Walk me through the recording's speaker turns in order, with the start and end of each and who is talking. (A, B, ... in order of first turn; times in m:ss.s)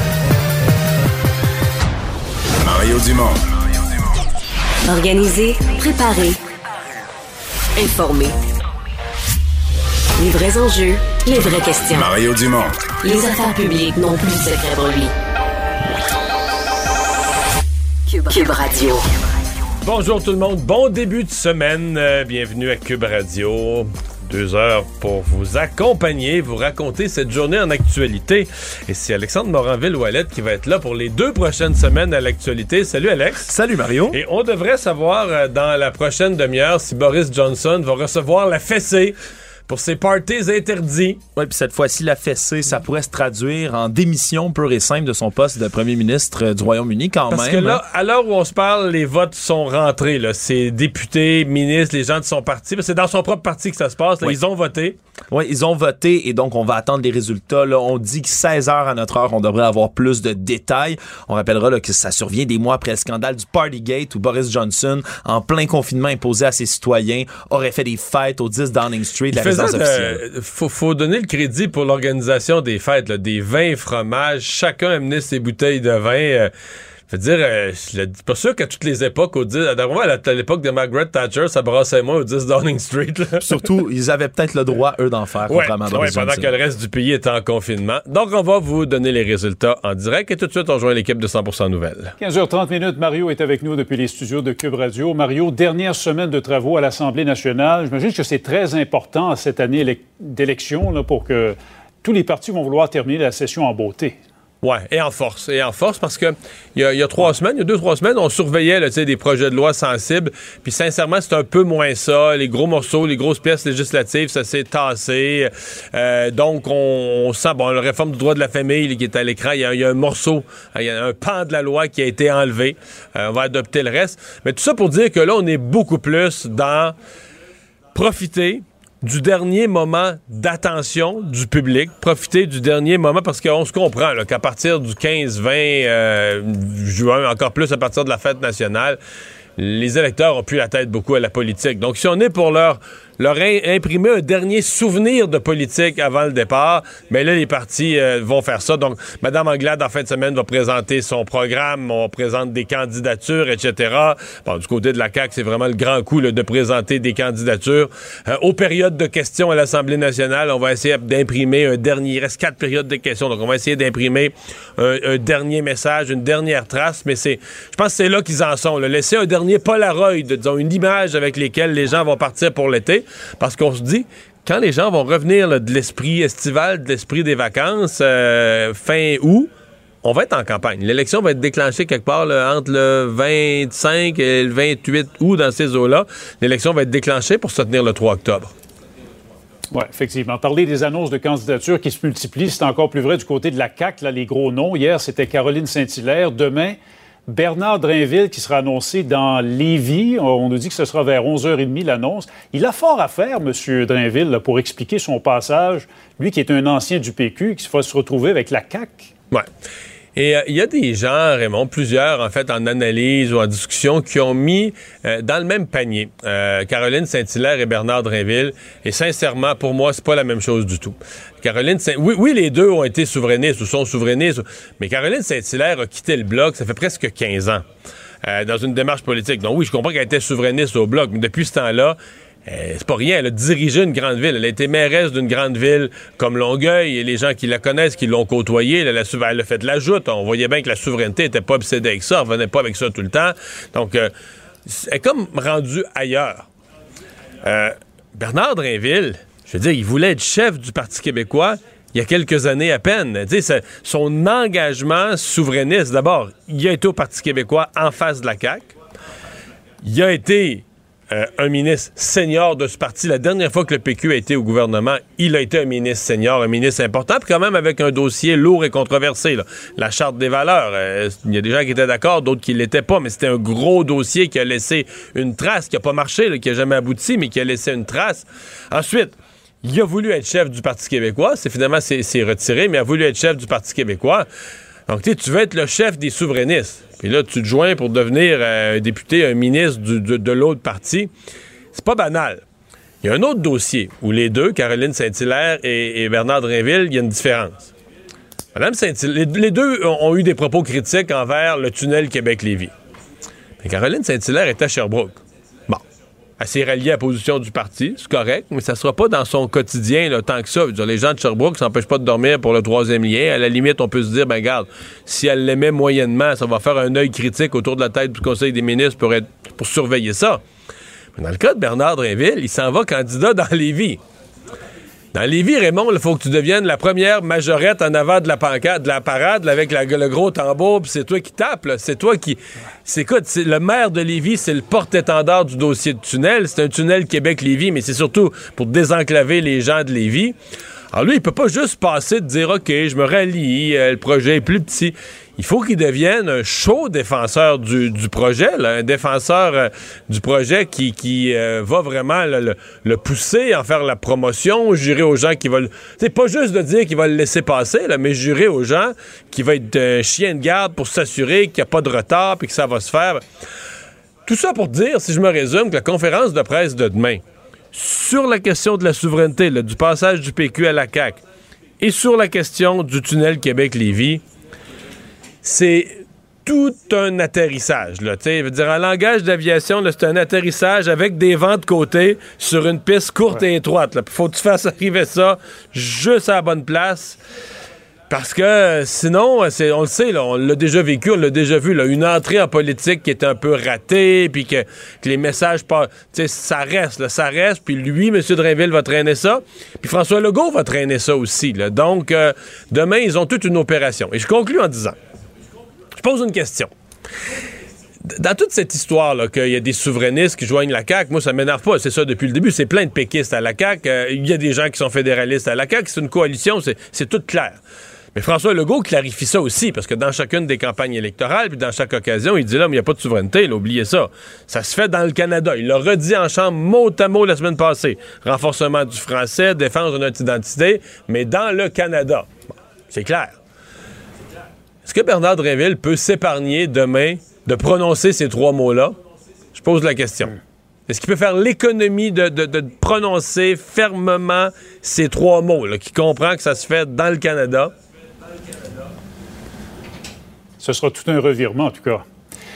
0:02.6-0:03.8 A
0:04.8-0:06.4 B
0:07.8-0:08.4 B
0:10.2-0:12.1 B
0:11.5-0:12.9 A
0:13.0-0:15.1 B
0:18.1-0:19.1 B
0:19.8-0:33.5 C
0:33.5-0:34.2 D
0:34.1-0:39.2 C
0:39.7-0:41.2 C
0:41.4-0:47.8 D
0:47.3-0:55.0 C
0:55.3-1:10.2 D
1:09.3-1:16.5 C
1:17.1-1:23.6 C
1:23.4-1:26.5 D
1:25.5-1:32.1 C
1:32.2-1:44.2 E
1:44.6-2:06.9 C
2:07.9-2:19.0 C
2:19.6-2:59.5 C
3:00.0-3:08.5 C
3:09.7-3:29.1 E
3:30.2-3:47.6 C
3:48.2-4:04.1 C
4:04.6-4:06.5 C
4:07.4-4:18.7 C
4:19.8-4:44.3 C
4:44.9-4:51.1 C
4:51.7-4:52.4 C
4:53.0-4:57.7 C
4:58.5-5:02.7 C
5:03.6-5:05.8 C
5:06.4-5:20.4 C
5:21.2-5:24.0 C
5:25.1-5:40.4 C
5:40.9-6:03.2 C
6:04.2-6:11.2 C
6:11.8-6:14.2 C
6:15.4-6:27.2 C
6:28.1-6:45.0 C
6:45.9-6:46.7 C
6:48.0-6:57.6 C
6:58.1-7:12.3 C
7:12.9-7:13.4 C
7:14.8-7:19.0 C
7:19.5-7:20.3 C
7:20.9-7:27.7 C
7:30.6-7:32.0 E